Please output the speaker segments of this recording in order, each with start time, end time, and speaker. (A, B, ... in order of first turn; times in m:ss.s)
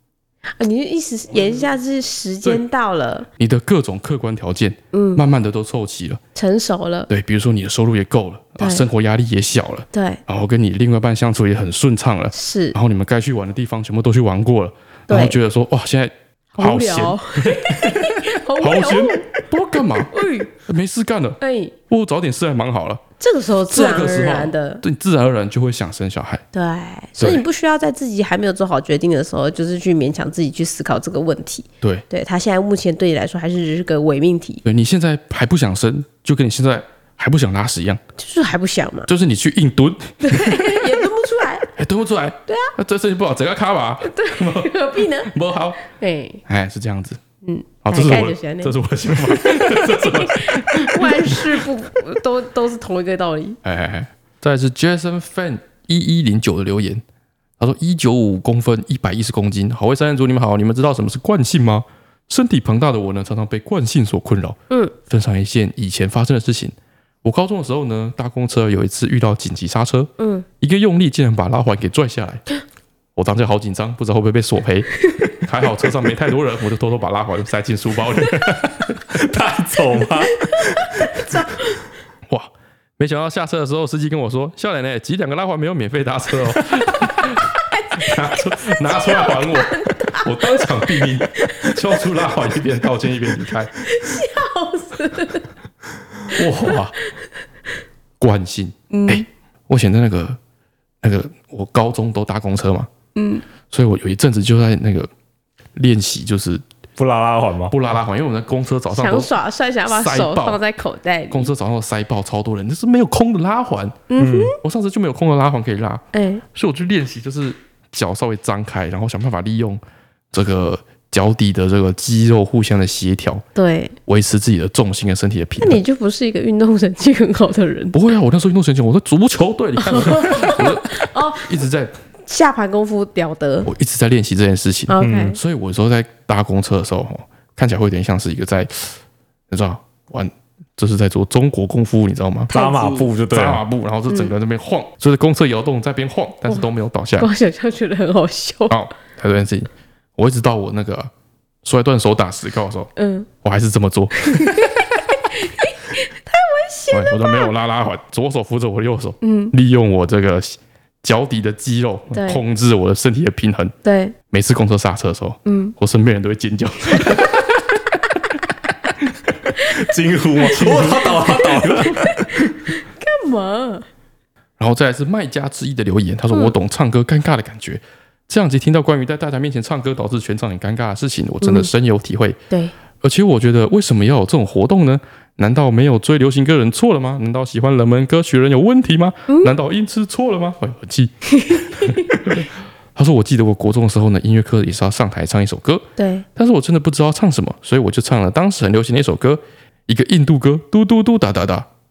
0:00.6-0:03.3 A
0:03.4-0:06.2 B
0:04.9-0:05.2 A
0:06.4-0:07.1 A
0:07.1-0:23.0 B
0:08.6-0:08.9 A
0:09.9-0:10.2 A
0:12.3-0:12.8 A
0:15.1-0:15.4 A
0:16.6-0:19.3 A
0:20.1-0:20.5 A
0:21.4-0:21.8 A
0:23.2-0:24.8 A
0:23.7-0:26.4 B
0:26.5-0:34.6 A
0:27.2-0:27.4 B
0:34.6-0:38.0 B
0:38.2-0:39.1 A
0:39.1-0:40.9 B
0:40.2-0:41.7 A
0:41.8-0:45.8 B
0:42.5-0:42.7 A
0:44.0-0:45.3 A
0:45.9-0:46.4 A
0:46.5-0:47.2 B
0:47.4-0:53.6 A
0:47.8-0:51.6 B
0:53.6-0:57.0 B
0:57.6-1:12.5 B
1:10.2-1:10.5 A
1:13.2-1:18.9 B
1:18.3-1:21.0 C
1:20.4-1:21.8 A
1:22.3-1:33.9 B
1:27.6-1:30.7 A
1:31.4-1:31.7 A
1:33.8-1:35.5 A
1:36.3-1:37.0 B
1:36.4-1:36.7 A
1:38.2-1:40.4 B
1:38.9-1:39.3 A
1:41.0-1:42.9 B
1:43.2-1:43.4 A
1:43.7-1:45.1 B
1:45.8-1:46.6 B
1:47.0-1:47.7 C
1:47.7-1:49.3 B
1:48.9-1:51.5 A
1:49.9-1:50.6 B
1:51.3-1:54.0 B
1:54.1-1:54.6 A
1:54.2-1:54.5 C
1:54.6-2:03.4 B
1:56.1-1:56.4 A
2:03.6-2:04.0 A
2:04.1-2:05.8 B
2:05.6-2:08.0 A
2:07.9-2:11.9 B
2:09.8-2:11.5 A
2:12.3-2:13.7 A
2:13.7-2:19.0 B
2:14.9-2:15.4 A
2:15.0-2:15.4 C
2:19.5-2:22.5 B
2:22.5-2:23.1 A
2:22.5-2:23.6 C
2:23.3-2:27.3 B
2:27.2-2:28.8 A
2:28.7-2:31.1 B
2:31.6-2:32.9 B
2:33.0-2:33.3 A
2:33.4-2:34.8 B
2:34.2-2:37.5 A
2:36.9-2:43.8 B
2:39.2-2:39.5 A
2:42.1-2:42.4 A
2:43.8-2:44.2 A
2:44.3-2:47.6 B
2:45.5-2:45.8 A
2:49.6-2:52.5 C
2:50.5-2:53.8 A
2:50.6-2:51.0 B
2:54.6-3:02.4 B
3:01.4-3:01.7 A
3:03.0-3:21.7 B
3:09.3-3:09.5 A
3:11.3-3:12.3 A
3:16.0-3:16.2 A